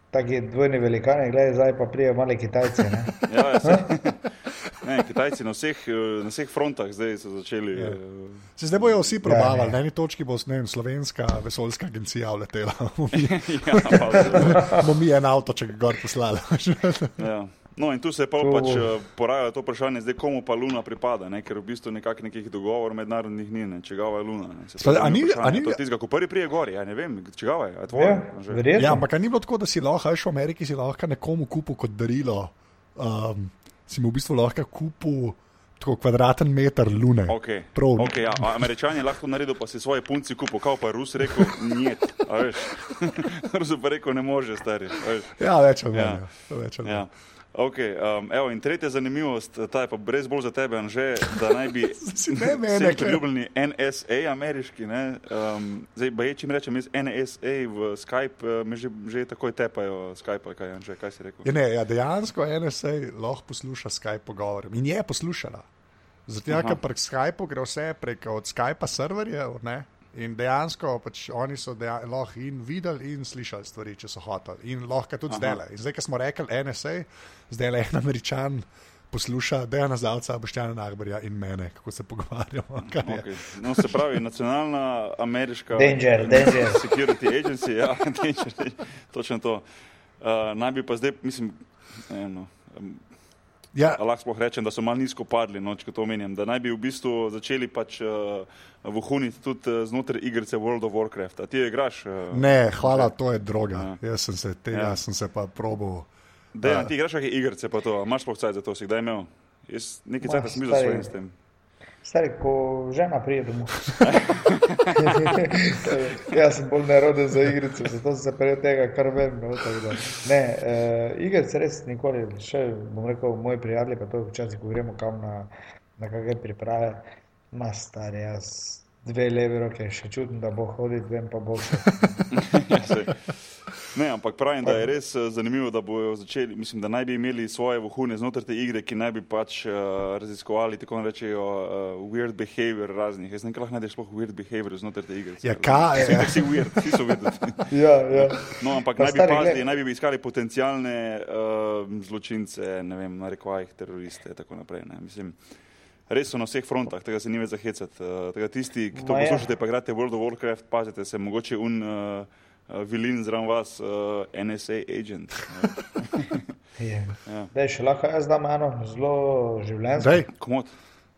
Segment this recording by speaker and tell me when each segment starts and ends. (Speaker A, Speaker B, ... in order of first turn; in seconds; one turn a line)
Speaker A: 0.1-3.9
Speaker B: 3.3-9.2
Speaker C: 7.7-8.0
Speaker C: 8.5-17.2
Speaker A: 9.2-9.8
Speaker B: 13.1-14.8
Speaker A: 14.5-14.8
Speaker B: 17.2-28.6
Speaker A: 18.4-18.9
Speaker C: 24.8-25.8
Speaker A: 27.9-29.1
Speaker C: 28.8-38.5
Speaker B: 37.3-45.4
Speaker C: 45.4-47.0
Speaker B: 45.9-46.3
Speaker B: 46.8-61.5
Speaker C: 52.0-53.2
Speaker C: 61.4-65.7
Speaker C: 66.3-84.0
Speaker B: 66.5-66.8
Speaker B: 75.3-75.6
Speaker B: 82.9-89.7
Speaker A: 85.8-86.8
Speaker B: 90.2-93.1
Speaker C: 93.7-94.0
Speaker B: 94.0-103.1
Speaker C: 102.3-106.1
Speaker B: 104.7-105.0
Speaker B: 106.5-111.3
Speaker C: 106.6-106.9
Speaker A: 110.2-111.1
Speaker A: 112.0-114.0
Speaker B: 114.0-115.5
Speaker A: 115.0-132.3
Speaker B: 132.3-155.4
Speaker C: 145.4-146.9
Speaker A: 147.7-149.6
Speaker B: 156.1-166.5
Speaker A: 158.9-159.5
Speaker A: 166.8-170.3
Speaker B: 167.2-167.5
Speaker C: 170.0-170.3
Speaker B: 170.3-170.7